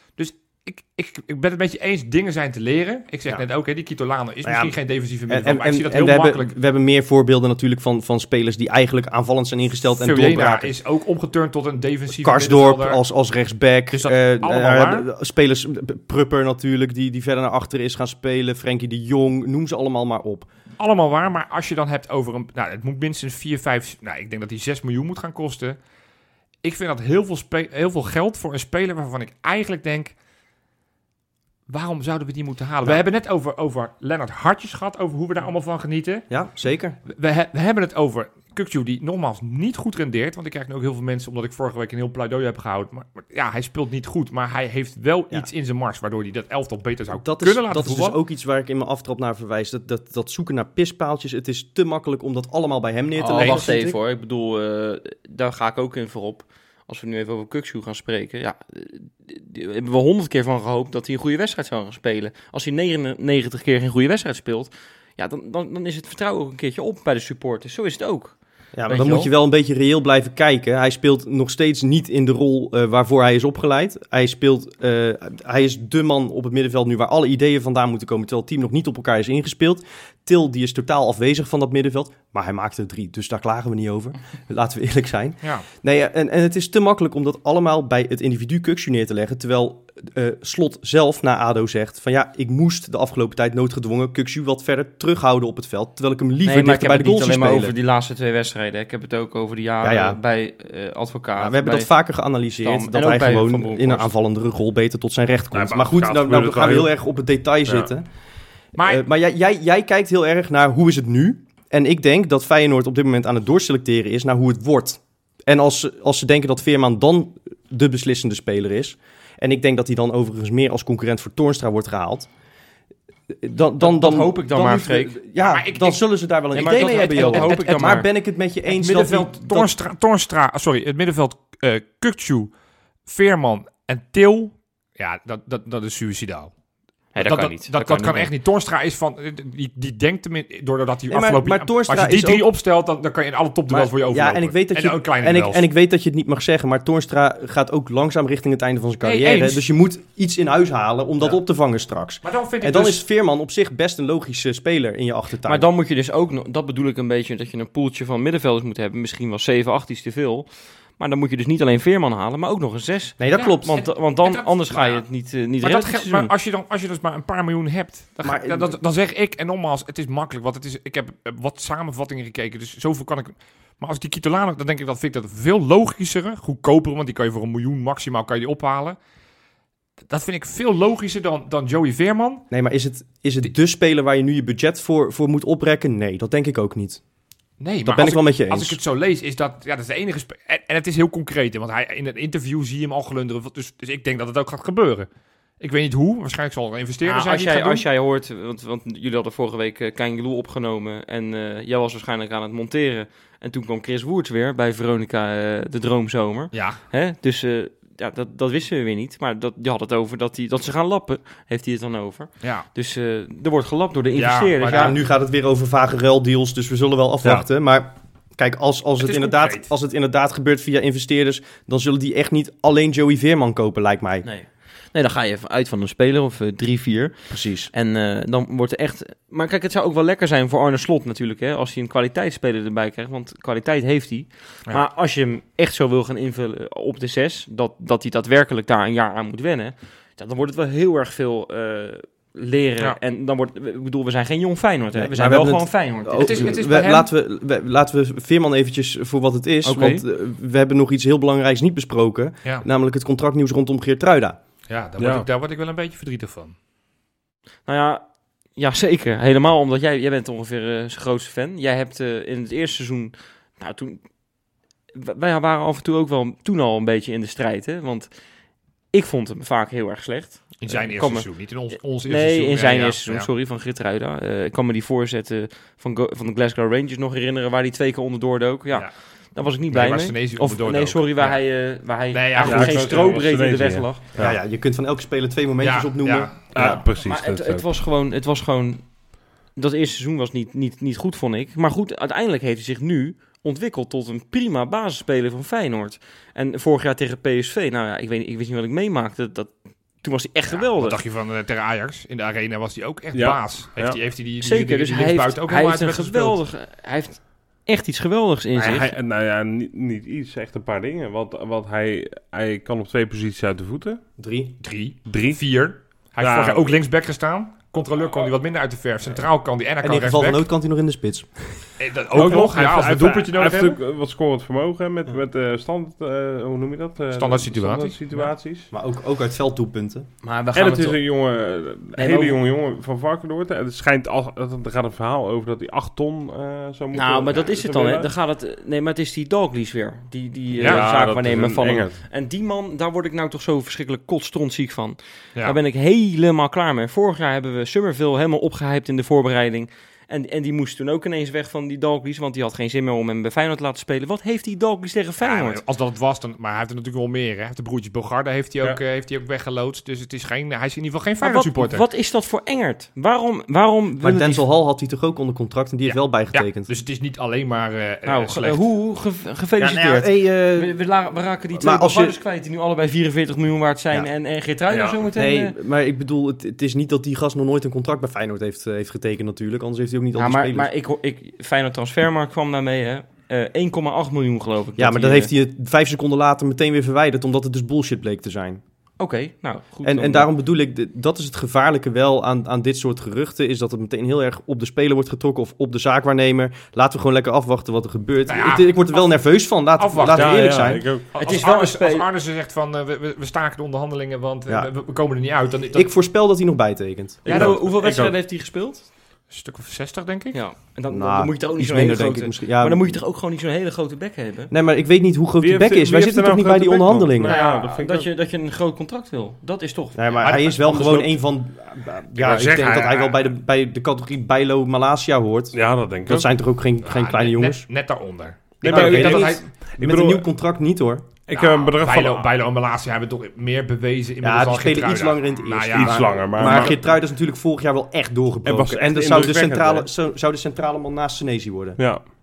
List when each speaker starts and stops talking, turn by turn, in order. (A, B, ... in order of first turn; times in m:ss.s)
0:00.2-0:06.5 A
0:04.4-0:04.7 B
0:05.3-0:10.7 B
0:10.0-0:13.0 A
0:12.1-0:20.5 B
0:13.9-0:15.1 A
0:20.8-0:25.8 A
0:26.6-0:30.2 A
0:31.7-0:36.2 A
0:36.3-0:37.0 B
0:37.1-0:48.2 A
0:47.2-0:54.0 B
0:53.2-1:09.3 C
0:53.3-0:53.7 A
1:08.7-1:37.7 B
1:36.4-1:41.9 C
1:39.8-1:40.2 B
1:41.4-1:48.1 B
1:42.6-1:44.1 C
1:45.5-1:46.9 D
1:48.8-1:49.0 A
1:48.8-2:02.3 B
2:03.3-2:09.7 B
2:03.8-2:05.2 C
2:05.4-2:06.0 A
2:06.5-2:08.1 C
2:06.6-2:07.6 A
2:08.6-2:12.5 A
2:13.0-2:16.5 A
2:17.1-2:18.3 C
2:17.2-2:25.6 A
2:21.1-2:22.4 B
2:23.7-2:35.6 B
2:29.0-2:29.6 A
2:32.2-2:33.0 A
2:35.4-2:46.3 C
2:43.2-2:43.9 B
2:43.3-2:59.0 A
2:48.2-2:48.8 B
3:00.1-3:02.4 A
3:02.5-3:07.0 B
3:07.6-3:15.1 A
3:07.8-3:08.8 B
3:15.6-3:17.8 A
3:17.0-3:35.0 C
3:26.5-3:26.8 A
3:32.4-3:32.6 A
3:34.1-3:34.9 A
3:34.6-3:44.2 B
3:39.0-3:39.7 A
3:44.2-4:06.6 C
3:47.3-3:47.7 B
4:04.9-4:14.4 B
4:06.2-4:07.1 A
4:09.6-4:10.0 C
4:14.7-4:16.5 A
4:15.0-4:15.2 D
4:17.6-4:24.0 C
4:24.9-4:28.1 C
4:28.9-4:31.3 C
4:30.6-4:33.3 A
4:31.9-4:44.1 C
4:38.7-4:43.2 A
4:42.4-4:44.4 D
4:44.2-4:46.8 B
4:45.6-4:46.4 A
4:46.5-4:47.7 D
4:46.6-5:01.0 C
5:00.5-5:06.4 A
5:03.1-5:04.0 D
5:04.4-5:08.9 C
5:08.5-5:14.0 D
5:14.2-5:14.5 B
5:14.6-5:20.4 A
5:15.0-5:15.4 D
5:16.2-5:16.7 D
5:19.8-5:21.7 B
5:21.8-5:23.8 A
5:22.1-5:28.7 D
5:27.1-5:28.3 A
5:28.7-5:30.1 B
5:30.2-5:31.0 C
5:30.5-5:38.1 D
5:32.0-5:32.4 C
5:36.9-5:55.6 C
5:40.6-5:41.0 A
5:40.6-5:42.0 D
5:55.2-6:01.8 A
6:01.2-6:04.5 C
6:04.0-6:06.7 B
6:05.8-6:08.6 A
6:08.0-6:15.5 C
6:09.6-6:10.8 B
6:11.6-6:12.2 B
6:14.7-6:15.0 D
6:15.1-6:20.7 B
6:20.2-6:25.3 C
6:24.8-6:28.6 B
6:29.0-6:30.3 C
6:29.8-6:40.9 B
6:38.3-6:45.9 A
6:40.0-6:41.0 D
6:41.1-6:42.1 C
6:45.7-6:47.3 B
6:47.2-6:48.1 A
6:47.2-6:48.9 C
6:47.3-6:47.6 D
6:49.3-6:50.4 A
6:50.3-6:54.5 C
6:50.9-6:53.0 B
6:54.5-6:57.3 B
6:55.4-6:58.1 D
6:57.2-7:01.1 C
6:59.9-7:07.6 B
7:00.2-7:00.5 A
7:02.2-7:03.2 A
7:05.5-7:06.3 D
7:06.8-7:09.4 A
7:08.6-7:10.2 D
7:08.6-7:11.0 B
7:11.3-7:12.3 D
7:11.3-7:16.8 A
7:14.2-7:21.8 B
7:15.8-7:16.7 D
7:18.4-7:19.9 D